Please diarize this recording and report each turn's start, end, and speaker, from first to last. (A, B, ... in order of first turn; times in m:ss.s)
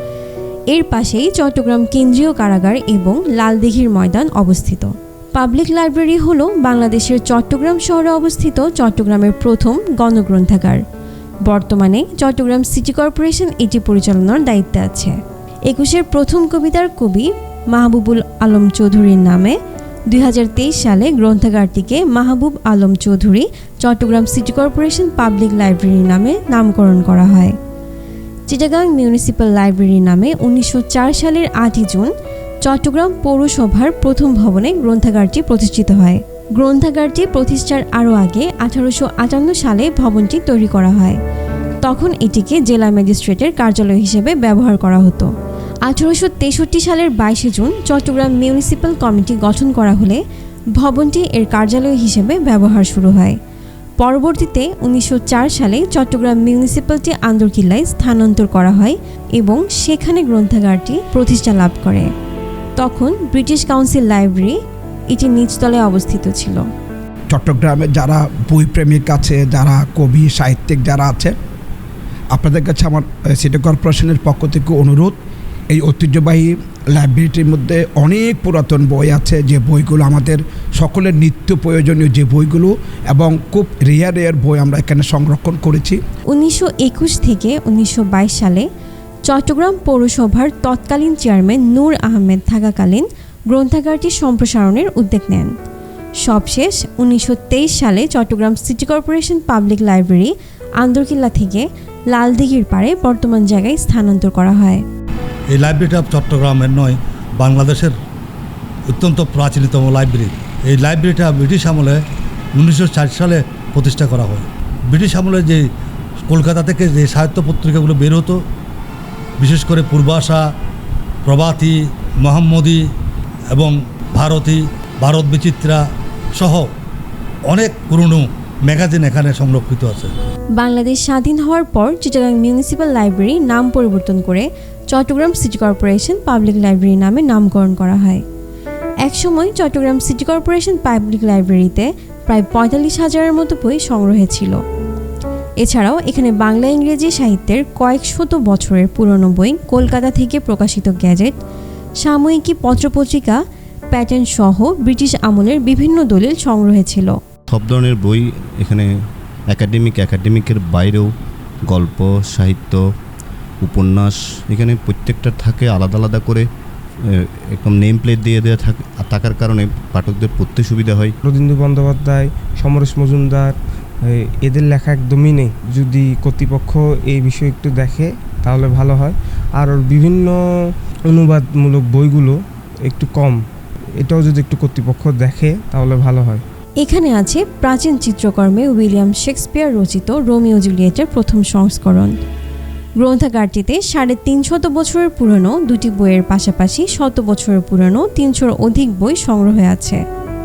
0:00.7-0:10.8 A
0:11.5-0:15.2 A
0:15.7-0:19.6 A
0:20.1-0:27.6 A
0:28.5-0:32.1 A
0:32.6-0:41.2 A
0:41.8-0:45.3 A
0:45.8-0:50.2 A
0:50.8-0:53.4 A
0:54.0-1:02.1 A
1:02.8-1:04.6 A
1:05.1-1:06.6 A
1:07.3-1:11.3 B
1:12.3-1:15.2 B
1:15.7-1:26.0 B
1:26.3-1:28.7 A
1:29.2-1:35.5 A
1:36.2-1:44.8 A
1:45.5-1:47.9 C
1:48.9-1:52.0 C
1:52.6-1:55.6 C
1:56.3-1:58.4 C
1:59.4-2:00.4 C
2:01.2-2:02.8 C
2:03.5-2:05.8 C
2:06.4-2:06.7 C
2:07.5-2:10.1 C
2:10.6-2:18.2 A
2:19.0-2:24.6 A
2:25.6-2:31.3 A
2:32.0-2:33.4 A
2:33.9-2:37.2 A
2:37.5-2:38.9 D
2:39.5-2:41.1 D
2:41.7-2:42.8 D
2:43.6-2:46.5 D
2:47.1-2:51.1 D
2:51.2-3:00.4 E
3:01.1-3:03.4 E
3:04.0-3:06.4 E
3:06.8-3:12.1 A
3:13.0-3:20.0 A